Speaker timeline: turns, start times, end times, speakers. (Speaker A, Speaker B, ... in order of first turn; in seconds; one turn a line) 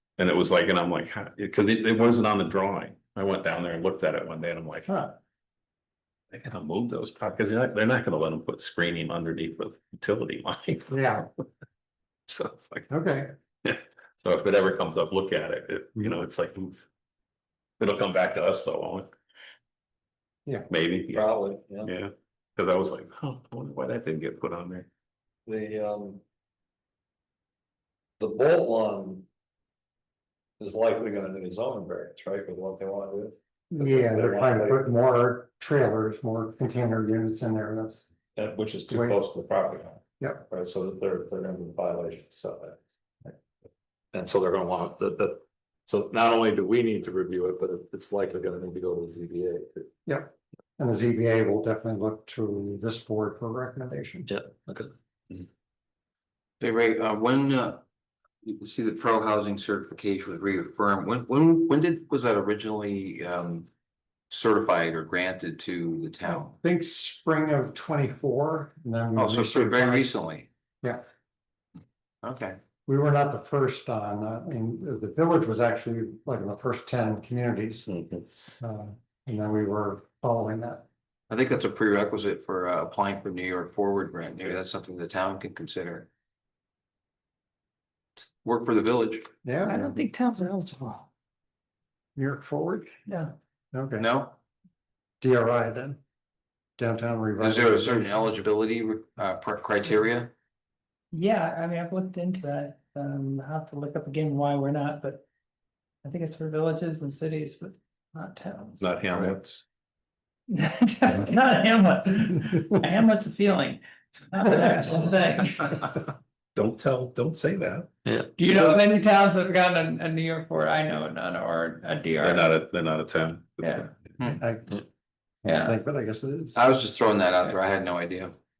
Speaker A: 0.2-4.9
Speaker B: 4.9-5.1
Speaker A: 6.3-11.2
Speaker B: 10.9-11.3
Speaker A: 12.3-12.9
Speaker B: 12.9-13.3
Speaker A: 13.7-16.9
Speaker A: 17.8-19.1
Speaker A: 20.7-21.3
Speaker C: 21.1-21.9
Speaker A: 21.8-24.9
Speaker C: 25.5-26.2
Speaker C: 28.2-29.3
Speaker C: 30.6-34.8
Speaker B: 33.7-38.1
Speaker C: 38.4-42.9
Speaker B: 38.9-39.2
Speaker C: 44.1-49.9
Speaker B: 50.0-54.3
Speaker C: 54.3-54.9
Speaker D: 56.6-57.8
Speaker D: 58.4-63.7
Speaker D: 64.3-66.5
Speaker B: 66.3-70.1
Speaker D: 69.2-70.5
Speaker D: 72.2-72.6
Speaker B: 72.9-77.9
Speaker A: 77.9-78.5
Speaker B: 78.6-80.9
Speaker D: 81.3-86.1
Speaker D: 88.2-89.3
Speaker B: 89.4-90.0
Speaker E: 89.7-91.1
Speaker B: 92.2-92.9
Speaker B: 93.7-94.0
Speaker D: 94.0-94.4
Speaker B: 95.2-96.0
Speaker B: 96.8-98.1
Speaker D: 97.4-100.3
Speaker E: 101.1-105.2
Speaker E: 106.0-108.9
Speaker A: 108.8-109.6
Speaker E: 110.5-115.9
Speaker A: 116.5-117.9
Speaker C: 118.1-118.5
Speaker E: 118.4-122.5
Speaker A: 122.2-123.9
Speaker E: 123.6-123.9
Speaker B: 124.2-124.8
Speaker B: 125.4-126.7
Speaker E: 125.5-125.8
Speaker D: 126.5-128.3